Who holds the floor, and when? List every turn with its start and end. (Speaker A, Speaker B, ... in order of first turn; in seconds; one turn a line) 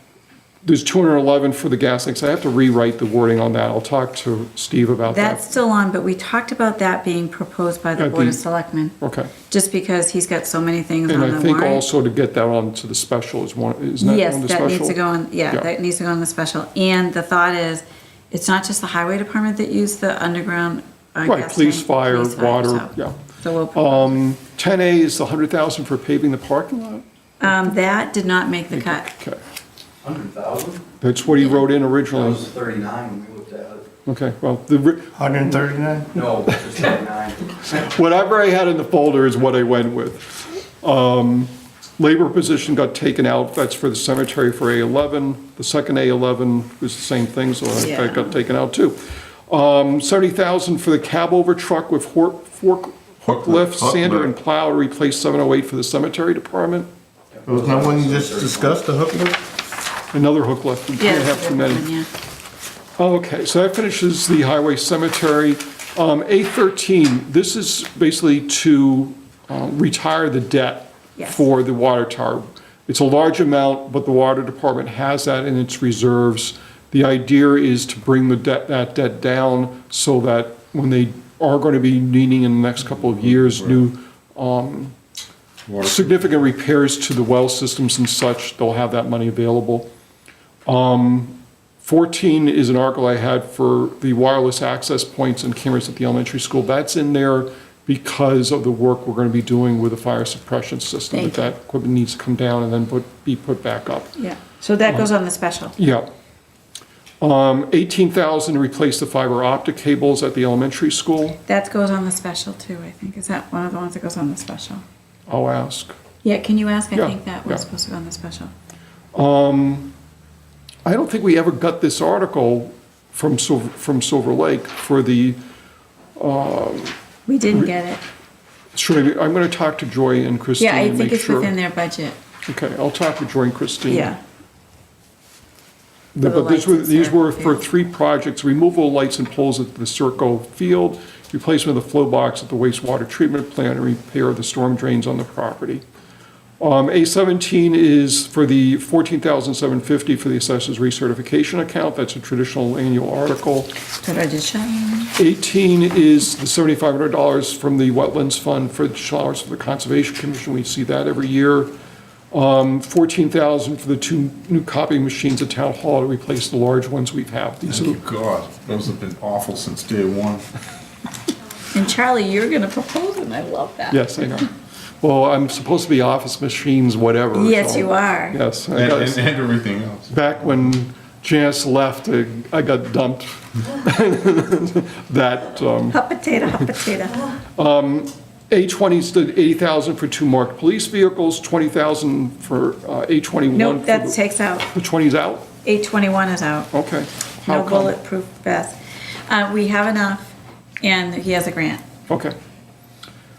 Speaker A: 0.6-5.5
Speaker B: 5.1-8.9
Speaker A: 8.0-8.4
Speaker A: 9.0-9.3
Speaker B: 9.5-11.8
Speaker A: 11.1-15.0
Speaker B: 14.0-24.1
Speaker A: 21.2-23.2
Speaker A: 23.7-27.0
Speaker B: 27.4-29.1
Speaker A: 28.7-29.4
Speaker C: 30.0-30.8
Speaker A: 31.0-32.4
Speaker C: 32.1-33.9
Speaker A: 34.0-35.7
Speaker D: 35.2-36.1
Speaker C: 36.1-37.7
Speaker A: 37.7-56.9
Speaker B: 47.7-48.4
Speaker D: 53.5-54.1
Speaker C: 57.3-58.9
Speaker D: 57.5-59.4
Speaker A: 60.1-61.9
Speaker B: 61.0-62.1
Speaker A: 63.0-85.0
Speaker B: 71.2-71.4
Speaker A: 85.8-89.9
Speaker A: 90.7-104.1
Speaker B: 101.1-101.5
Speaker B: 104.2-105.7
Speaker A: 104.9-105.1
Speaker A: 105.8-106.1
Speaker A: 107.2-111.4
Speaker B: 111.5-114.8
Speaker A: 115.3-116.0
Speaker B: 116.2-118.5
Speaker A: 116.9-117.6
Speaker A: 119.1-119.9
Speaker A: 120.8-125.4
Speaker A: 126.2-127.0
Speaker B: 127.3-128.0
Speaker A: 128.7-131.5
Speaker B: 130.6-132.2
Speaker A: 132.5-134.1
Speaker B: 133.8-134.2
Speaker A: 136.1-145.8
Speaker B: 136.2-137.7
Speaker A: 146.6-153.7
Speaker B: 154.0-155.1
Speaker A: 155.2-161.7
Speaker A: 162.3-168.0
Speaker E: 167.7-170.4
Speaker B: 171.7-174.4
Speaker A: 173.9-174.5
Speaker A: 175.0-179.3
Speaker B: 177.3-178.4
Speaker E: 178.7-180.0
Speaker A: 180.1-186.0
Speaker B: 185.9-187.2
Speaker A: 187.6-195.5
Speaker B: 193.5-194.7
Speaker B: 195.6-196.7
Speaker A: 196.7-198.0
Speaker B: 197.4-201.8
Speaker A: 202.1-202.3